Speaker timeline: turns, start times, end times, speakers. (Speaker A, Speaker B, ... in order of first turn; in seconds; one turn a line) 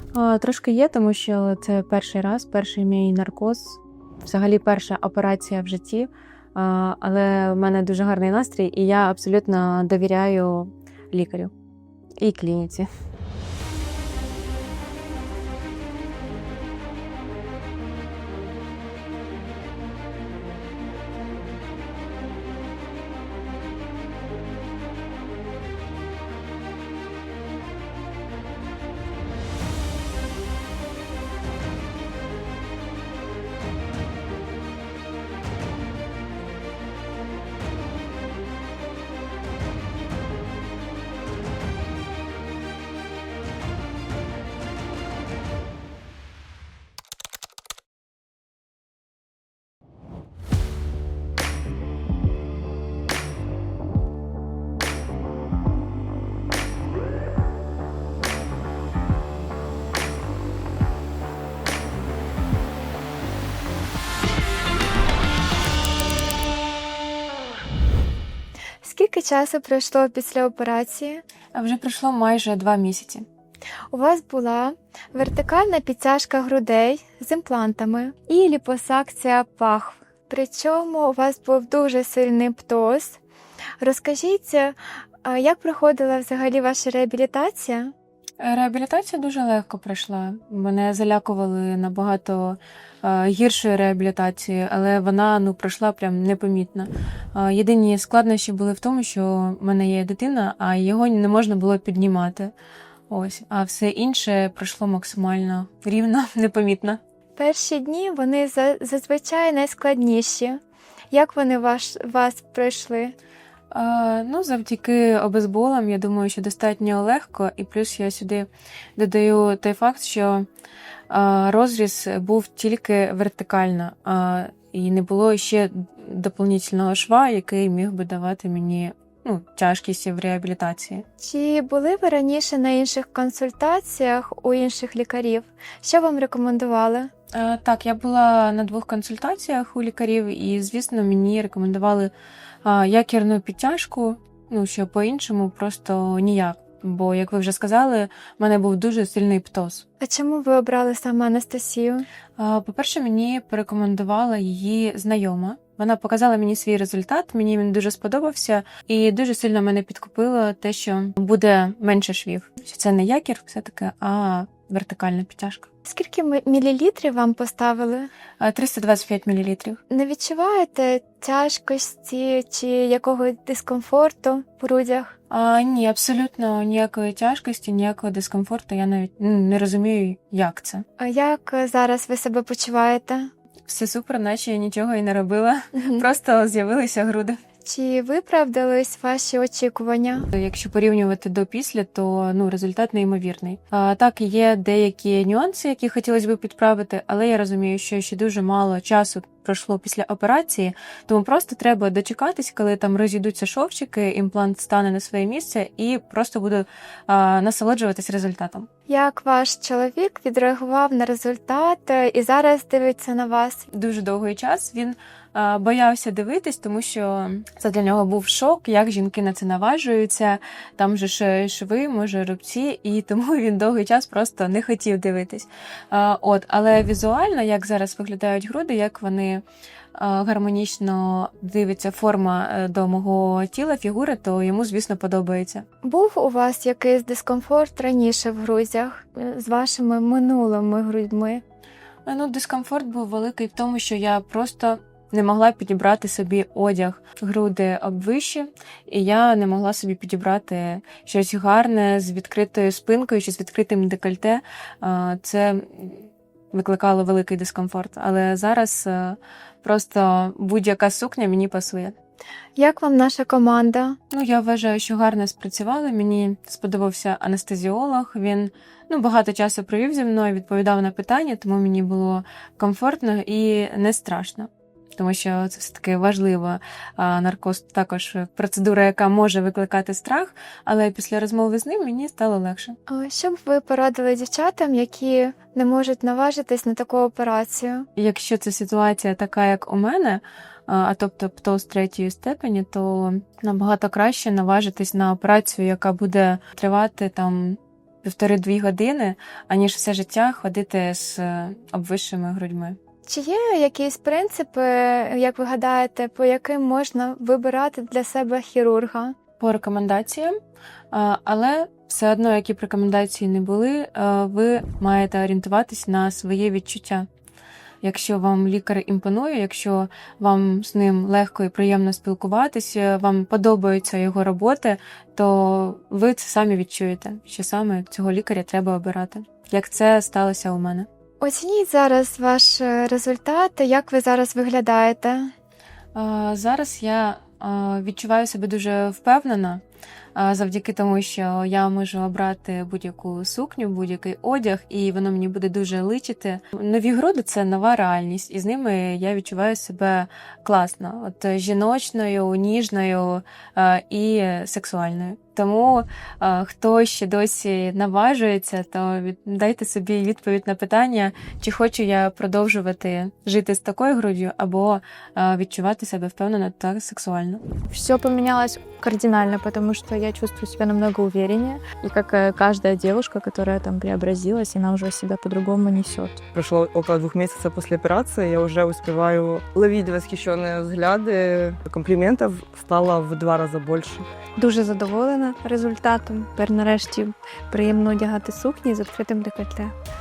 Speaker A: 0.1-11.5
Speaker A: 12.2-12.9
Speaker B: 68.8-71.2
Speaker A: 71.5-73.2
Speaker B: 73.9-83.2
Speaker B: 83.8-87.9
Speaker A: 88.4-102.5
Speaker A: 103.1-107.0
Speaker B: 107.4-110.6
Speaker B: 111.1-113.2
Speaker A: 113.7-120.5
Speaker A: 121.1-131.1
Speaker B: 131.2-137.1
Speaker A: 137.3-142.1
Speaker A: 142.7-149.8
Speaker B: 150.0-152.1
Speaker A: 152.4-165.7
Speaker B: 165.8-168.1
Speaker A: 168.4-169.8
Speaker B: 169.9-175.2
Speaker A: 175.3-180.8
Speaker B: 181.0-183.3
Speaker A: 183.7-187.4
Speaker B: 187.7-190.3
Speaker A: 190.3-208.7
Speaker B: 208.9-213.7
Speaker A: 213.7-229.4
Speaker A: 229.9-235.7
Speaker B: 235.8-241.4
Speaker A: 242.1-261.9
Speaker B: 262.6-264.0
Speaker A: 264.1-282.8
Speaker B: 282.9-287.9
Speaker A: 288.0-302.8
Speaker B: 303.1-309.1
Speaker A: 309.4-310.4
Speaker A: 310.9-317.1
Speaker A: 317.8-330.9
Speaker B: 331.2-335.3
Speaker A: 335.9-339.6
Speaker A: 340.1-367.4
Speaker C: 367.8-376.2
Speaker D: 376.3-384.1
Speaker C: 384.4-389.7